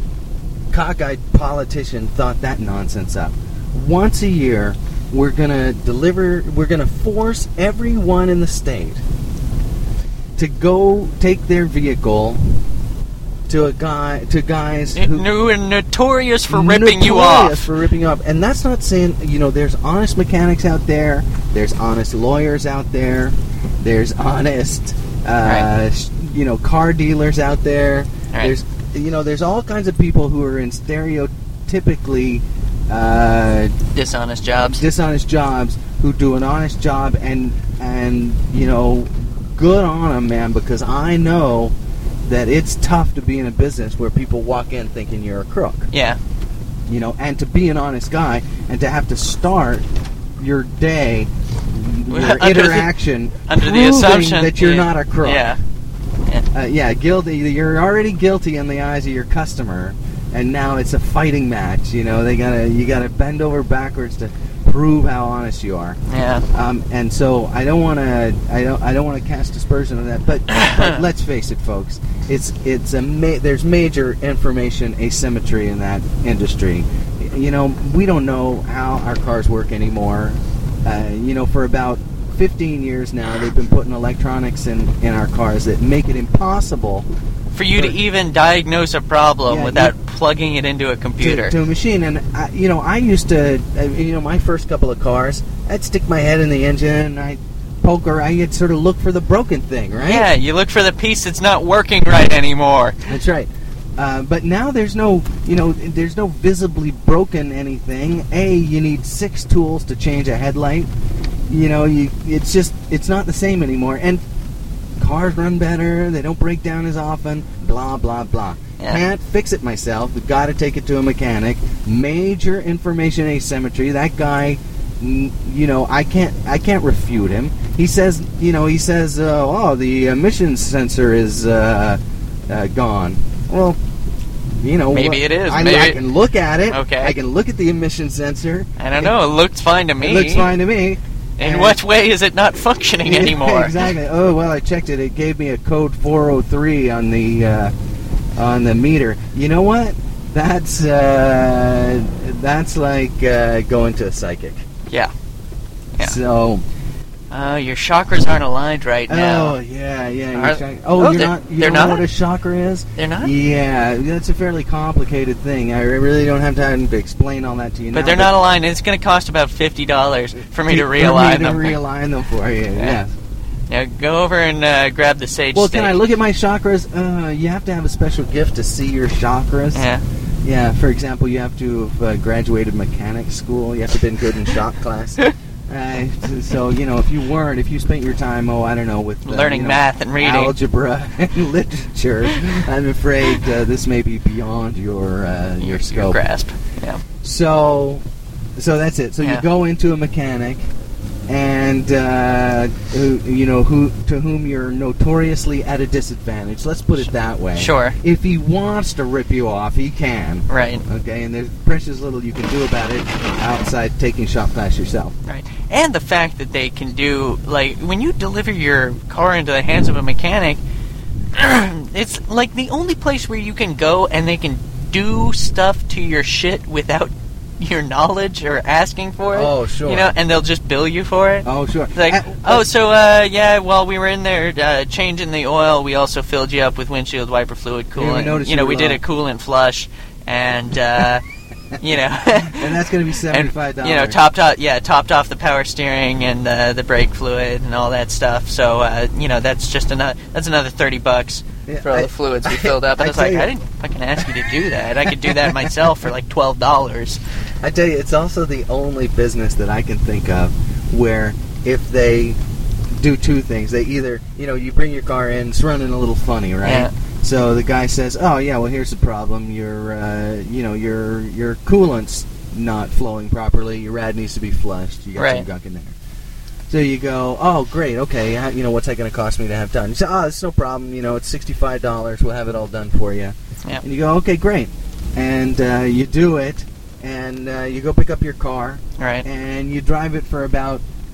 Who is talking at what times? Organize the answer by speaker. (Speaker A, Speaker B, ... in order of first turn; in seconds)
Speaker A: 0.7-9.0, 10.3-12.6, 13.5-15.3, 16.5-33.7, 34.6-45.9, 46.9-55.5, 56.5-66.0, 66.5-87.1, 89.5-89.9, 91.2-100.3, 103.1-110.9, 111.5-114.2, 115.0-133.8, 134.6-139.1, 140.0-141.8, 143.0-147.7, 148.3-154.6, 156.0-156.6, 159.1-168.3, 170.6-173.1, 175.5-179.8, 180.4-196.2, 197.2-198.0, 198.6-200.7, 201.3-215.1, 229.3-230.1, 231.4-232.7, 237.9-239.0, 242.3-244.2, 251.7-253.5, 255.0-255.8, 257.6-262.4, 262.9-275.9, 276.7-290.8
Speaker B: 14.9-17.7, 33.9-34.8, 45.9-46.2, 52.1-52.9, 53.5-55.6, 66.1-66.4, 70.5-71.0, 87.5-91.5, 100.0-103.1, 134.9-136.0, 136.7-137.1, 138.8-140.5, 141.4-143.9, 157.3-159.6, 160.3-162.1, 163.0-163.3, 167.9-171.8, 173.7-176.0, 179.7-180.0, 189.2-190.6, 195.6-197.0, 207.6-208.0, 210.5-210.8, 215.2-220.6, 221.3-241.2, 241.8-242.8, 243.3-257.2, 266.6-266.9, 275.1-275.5, 289.0-289.2